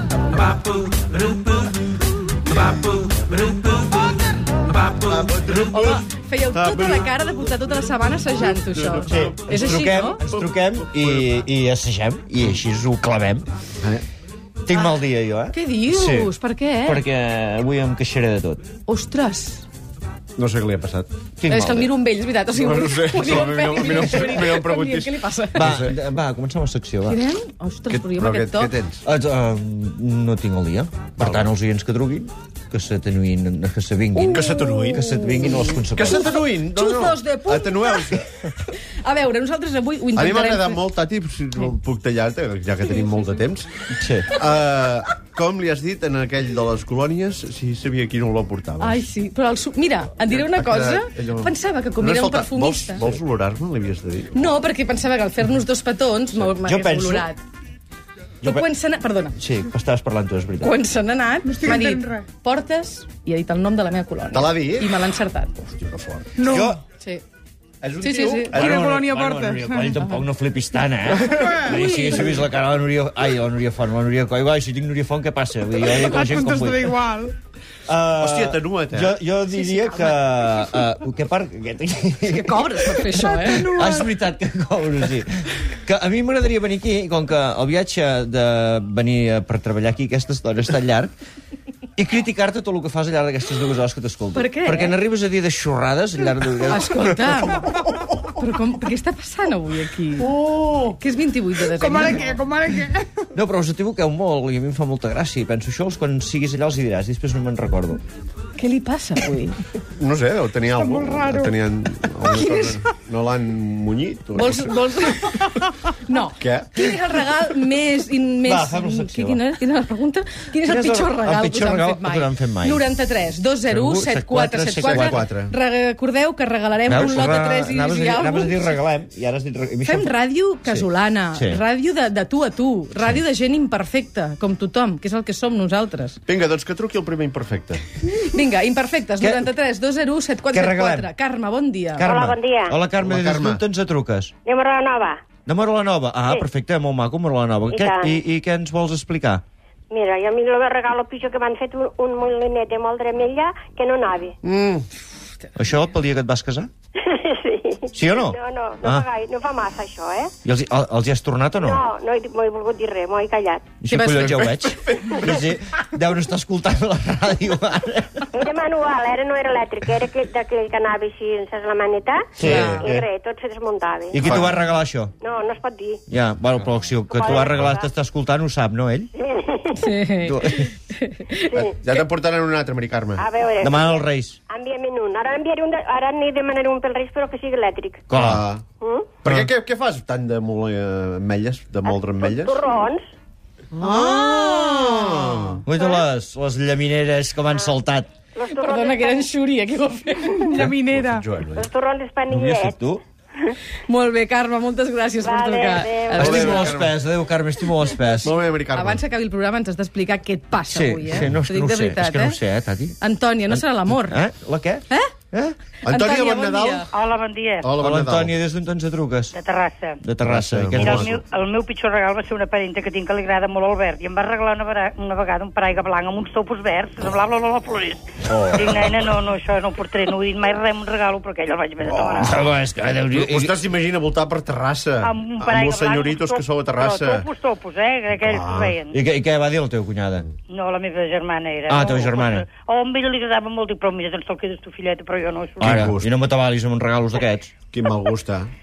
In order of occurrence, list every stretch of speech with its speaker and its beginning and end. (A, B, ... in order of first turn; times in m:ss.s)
0:00.9-0:01.4 A
0:05.1-0:06.0 A
0:05.6-0:10.2 B
0:06.6-0:06.9 A
0:06.6-0:06.9 C
0:08.4-0:11.3 C
0:09.0-0:13.5 A
0:14.6-0:16.3 A
0:15.5-0:17.0 B
0:16.8-0:18.6 A
0:18.9-0:19.6 B
0:20.4-0:21.1 C
0:21.4-0:21.9 A
0:21.5-0:25.7 B
0:22.6-0:25.9 C
0:25.5-0:27.2 A
0:27.1-0:28.7 B
0:27.9-0:29.0 C
0:29.0-0:36.3 A
0:31.2-0:31.5 C
0:34.2-0:40.8 B
0:34.2-0:35.3 C
0:35.9-0:38.2 C
0:40.1-0:43.7 C
0:43.9-0:44.3 A
0:44.3-0:49.0 C
0:48.8-0:53.0 B
0:50.2-0:54.6 C
0:54.3-0:57.4 B
0:56.5-0:57.3 A
0:58.4-0:59.4 B
0:59.4-1:00.8 A
1:00.6-1:05.5 B
1:01.4-1:02.2 D
1:04.3-1:04.9 C
1:05.6-1:06.3 C
1:06.4-1:06.7 D
1:06.4-1:06.8 A
1:07.8-1:08.6 C
1:08.0-1:08.7 B
1:08.0-1:10.0 D
1:08.5-1:17.0 A
1:11.3-1:12.4 D
1:15.8-1:17.3 D
1:17.9-1:31.1 A
1:18.2-1:19.2 C
1:19.6-1:20.2 B
1:22.3-1:23.7 B
1:23.4-1:24.1 D
1:32.0-1:37.5 A
1:34.3-1:34.9 B
1:36.7-1:37.6 B
1:38.3-1:40.3 B
1:40.4-1:40.9 C
1:40.9-1:42.3 B
1:41.7-1:43.1 D
1:43.3-1:48.0 A
1:48.6-1:49.6 B
1:50.0-1:54.7 C
1:50.7-1:51.6 D
1:52.3-1:52.8 B
1:54.3-2:08.7 B
1:56.4-1:56.8 C
1:58.4-1:59.4 A
2:00.6-2:02.8 A
2:03.6-2:05.2 A
2:04.8-2:05.5 C
2:06.9-2:10.1 A
2:09.8-2:16.2 B
2:10.6-2:11.6 A
2:16.3-2:17.8 C
2:18.2-2:22.1 B
2:19.2-2:19.4 A
2:20.5-2:21.1 A
2:22.0-2:24.3 A
2:22.0-2:22.8 E
2:23.0-2:23.6 C
2:24.4-2:25.2 E
2:25.4-2:29.4 A
2:27.7-2:28.2 E
2:29.9-2:34.4 E
2:34.4-2:34.8 C
2:35.6-2:36.7 A
2:37.0-2:40.3 E
2:37.9-2:39.1 A
2:40.4-2:41.8 A
2:41.6-2:43.6 E
2:43.8-2:48.3 A
2:43.9-2:44.4 B
2:44.1-2:45.1 C
2:48.3-2:54.3 E
2:52.4-2:53.0 A
2:52.4-2:52.9 C
2:54.1-2:55.1 A
2:54.2-2:54.5 C
2:55.2-2:56.0 E
2:56.1-2:59.1 A
2:57.1-2:57.8 E
2:59.2-2:59.9 E
2:59.8-3:01.5 B
3:00.2-3:00.7 A
3:01.6-3:03.3 C
3:03.2-3:08.0 E
3:03.6-3:04.4 A
3:08.1-3:08.4 A
3:08.1-3:08.6 C
3:08.8-3:09.1 E
3:09.2-3:12.6 C
3:09.2-3:09.5 A
3:11.9-3:13.1 E
3:13.8-3:15.6 C
3:13.9-3:14.7 B
3:14.2-3:14.8 D
3:15.6-3:18.1 A
3:18.3-3:19.3 E
3:18.5-3:20.5 B
3:20.5-3:21.2 D
3:20.6-3:21.7 C
3:21.5-3:22.8 E
3:22.3-3:23.0 A
3:23.9-3:26.7 B
3:25.2-3:26.7 E
3:26.1-3:28.3 A
3:26.2-3:26.9 C
3:28.2-3:29.0 C
3:28.7-3:32.4 B
3:30.7-3:35.6 A
3:33.0-3:34.2 B
3:35.8-3:36.8 C
3:35.8-3:36.9 B
3:36.9-3:37.7 F
3:37.6-3:38.3 C
3:37.8-3:39.3 A
3:39.3-3:40.0 F
3:40.0-3:41.1 A
3:40.2-3:41.2 C
3:40.8-3:52.5 F
3:51.9-3:52.2 C
3:52.2-3:53.6 A
3:52.8-3:57.3 C
3:55.0-3:58.9 F
3:58.2-3:58.8 C
3:58.9-4:00.2 A
4:00.5-4:05.8 F
4:01.7-4:02.4 A
4:05.6-4:07.5 A
4:05.6-4:06.1 C
4:07.7-4:08.5 C